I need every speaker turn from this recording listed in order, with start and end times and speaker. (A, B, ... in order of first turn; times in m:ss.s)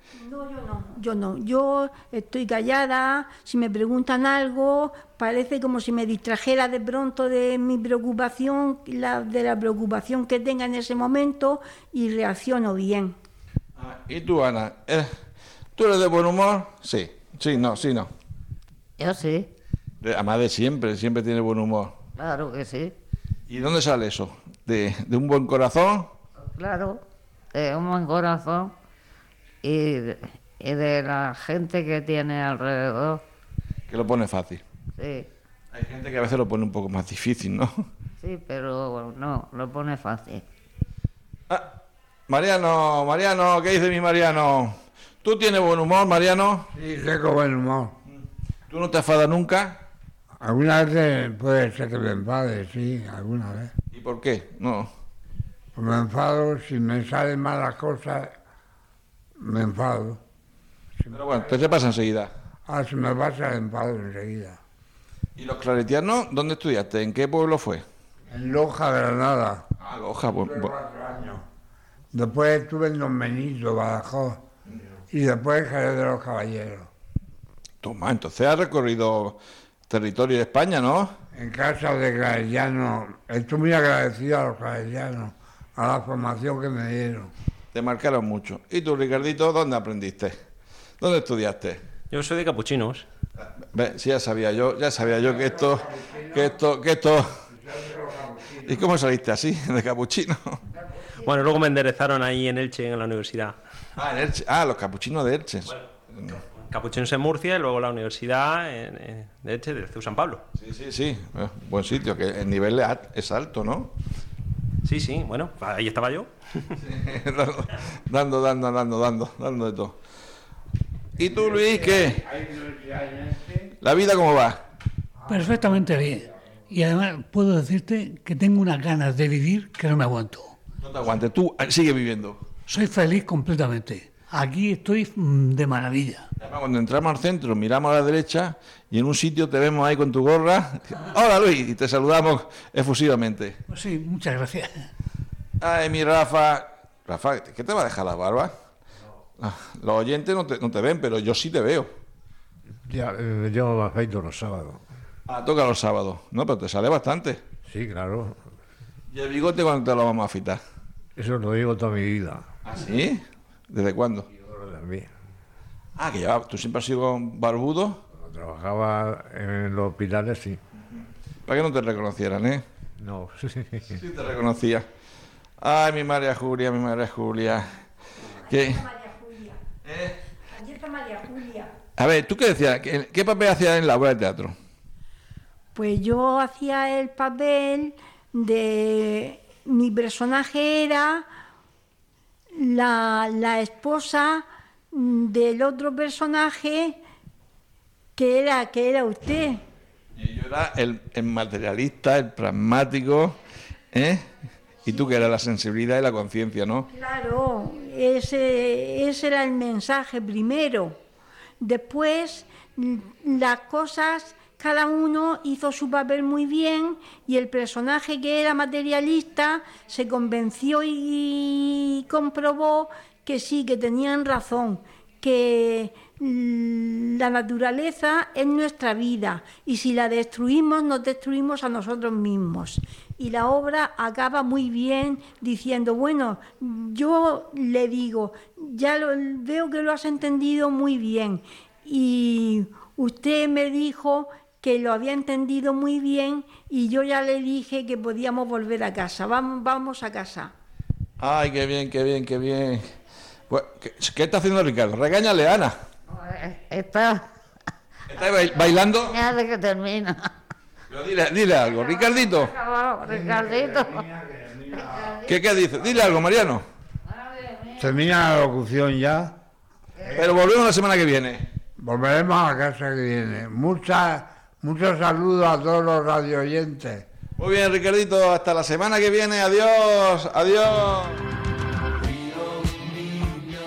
0:00.2-0:13.1 A
0:13.8-0:15.1 B
0:15.8-0:18.1 B
0:19.0-0:19.5 C
0:20.0-0:22.0 B
0:22.2-0:22.9 C
0:23.5-0:26.1 B
0:26.4-0:27.0 C
0:27.5-0:28.7 C
0:29.6-0:33.2 C
0:33.9-0:34.6 B
0:35.0-0:35.3 C
0:35.7-0:37.8 B
0:38.2-0:40.4 C
0:42.3-0:46.7 B
0:46.7-0:47.9 D
0:48.0-0:49.8 B
0:50.4-0:53.7 D
0:53.9-0:54.9 B
0:55.7-0:58.3 D
0:59.4-1:00.2 D
1:01.0-1:01.6 D
1:01.1-1:02.3 B
1:02.7-1:04.6 D
1:05.4-1:07.8 B
1:08.3-1:09.6 D
1:09.8-1:10.7 B
1:10.4-1:11.4 D
1:12.1-1:14.4 D
1:15.1-1:16.9 D
1:17.8-1:21.1 B
1:21.3-1:27.3 D
1:27.7-1:30.3 B
1:31.0-1:31.8 B
1:32.1-1:33.0 E
1:33.6-1:37.3 B
1:35.2-1:36.5 D
1:37.5-1:38.8 D
1:38.6-1:40.6 B
1:41.2-1:43.6 E
1:44.0-1:46.4 B
1:46.5-1:50.4 E
1:50.6-1:53.9 B
1:54.8-1:56.3 E
1:56.8-2:00.0 B
2:01.2-2:02.2 B
2:01.2-2:03.7 D
2:03.8-2:04.6 B
2:05.2-2:10.6 F
2:10.8-2:12.4 B
2:12.7-2:16.3 F
2:16.4-2:23.6 B
2:23.7-2:24.9 F
2:25.6-2:28.5 B
2:29.4-2:31.9 B
2:32.8-2:34.8 G
2:35.3-2:37.4 B
2:37.7-2:38.4 G
2:39.1-2:40.6 B
2:41.2-2:42.5 G
2:42.6-2:44.2 B
2:44.3-2:45.1 G
2:46.0-2:48.0 B
2:48.1-2:50.6 G
2:51.4-2:52.6 B
2:53.0-2:53.9 G
2:53.9-2:54.9 B
2:55.6-2:57.7 B
2:58.4-2:59.6 A
2:58.5-2:58.8 B
2:59.8-3:00.2 B
3:00.5-3:01.7 A
3:02.0-3:04.5 B
3:05.7-3:11.2 A
3:12.6-3:17.0 A
3:18.2-3:19.6 A
3:20.2-3:23.4 B
3:23.9-3:24.2 B
3:24.8-3:26.9 B
3:26.9-3:31.0 A
3:31.6-4:10.5 A
4:11.2-4:12.8 B
4:13.5-4:15.7 B
4:16.1-4:17.2 C
4:18.1-4:19.2 B
4:18.4-4:20.3 C
4:20.9-4:22.5 B
4:21.9-4:24.0 C
4:23.5-4:24.5 D
4:24.7-4:25.4 C
4:25.2-4:26.6 B
4:27.1-4:27.8 C
4:27.8-4:29.4 D
4:30.1-4:31.4 B
4:31.8-4:37.0 D
4:37.4-4:41.2 B